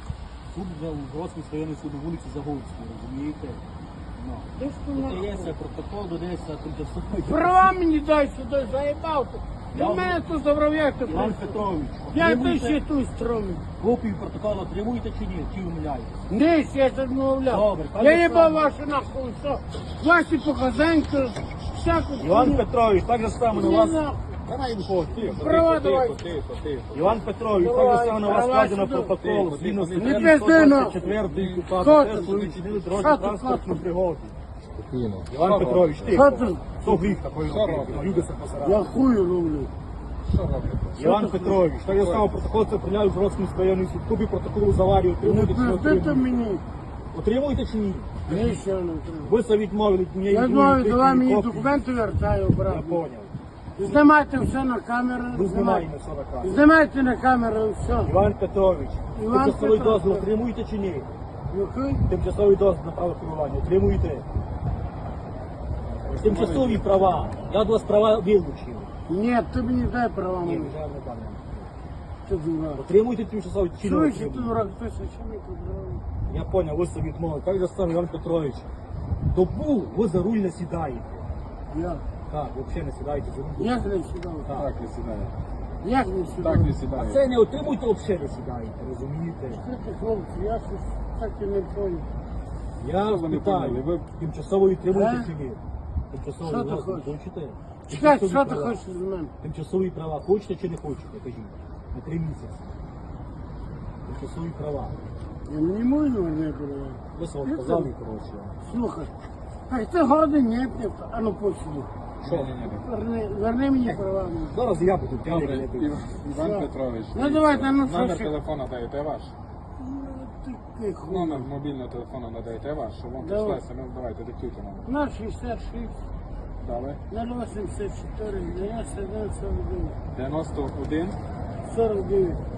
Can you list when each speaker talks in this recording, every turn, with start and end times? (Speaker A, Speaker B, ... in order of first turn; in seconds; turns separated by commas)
Speaker A: 0.5-3.6, Speaker A: 4.2-7.7, Speaker B: 4.6-5.5, Speaker B: 7.2-11.6, Speaker A: 9.7-10.2, Speaker A: 11.1-12.8, Speaker B: 12.1-13.7, Speaker A: 13.8-16.3, Speaker B: 16.3-22.7, Speaker A: 17.5-18.8, Speaker A: 22.2-25.5, Speaker B: 23.5-24.2, Speaker C: 25.2-27.2, Speaker B: 25.3-26.2, Speaker A: 26.9-34.4, Speaker B: 27.4-29.2, Speaker C: 29.2-30.4, Speaker B: 30.0-31.1, Speaker C: 31.1-31.7, Speaker B: 31.8-33.8, Speaker C: 32.4-32.9, Speaker C: 34.9-36.5, Speaker A: 35.3-38.9, Speaker B: 36.1-37.2, Speaker C: 37.3-38.3, Speaker B: 38.6-39.7, Speaker C: 40.2-41.1, Speaker A: 41.0-46.5, Speaker B: 41.0-41.7, Speaker C: 41.8-42.3, Speaker B: 45.2-46.6, Speaker A: 47.1-48.6, Speaker B: 48.2-49.4, Speaker A: 49.2-51.8, Speaker B: 50.3-53.0, Speaker A: 52.7-53.3, Speaker B: 53.8-55.9, Speaker A: 55.3-56.6, Speaker B: 56.4-58.1, Speaker A: 58.0-61.1, Speaker B: 59.1-60.3, Speaker B: 61.5-62.0, Speaker A: 62.1-64.3, Speaker C: 66.1-66.9, Speaker A: 66.1-68.9, Speaker B: 69.1-70.8, Speaker A: 70.4-71.7, Speaker B: 72.3-72.8, Speaker A: 72.8-74.6, Speaker B: 73.8-76.0, Speaker A: 76.3-78.7, Speaker A: 79.3-81.3, Speaker B: 81.7-82.0, Speaker A: 82.3-83.8, Speaker B: 83.6-84.5, Speaker C: 84.5-85.3, Speaker B: 85.8-86.8, Speaker C: 86.4-87.3, Speaker A: 86.9-89.6, Speaker B: 89.5-92.1, Speaker A: 92.8-95.6, Speaker C: 93.0-94.1, Speaker B: 94.9-95.3, Speaker A: 96.1-98.8, Speaker B: 96.4-97.1, Speaker B: 97.9-99.3, Speaker A: 99.4-102.8, Speaker A: 104.0-105.0, Speaker B: 105.5-107.9, Speaker A: 107.1-108.6, Speaker B: 108.6-109.1, Speaker B: 109.7-111.9, Speaker A: 112.2-112.6, Speaker C: 112.2-112.9, Speaker B: 112.6-114.6, Speaker A: 113.8-116.0, Speaker C: 115.2-119.3, Speaker B: 116.3-118.4, Speaker B: 119.8-121.5, Speaker C: 121.0-124.9, Speaker B: 123.2-123.6, Speaker B: 124.8-126.0, Speaker C: 126.6-127.0, Speaker B: 127.1-130.0, Speaker C: 130.2-131.2, Speaker B: 131.6-132.4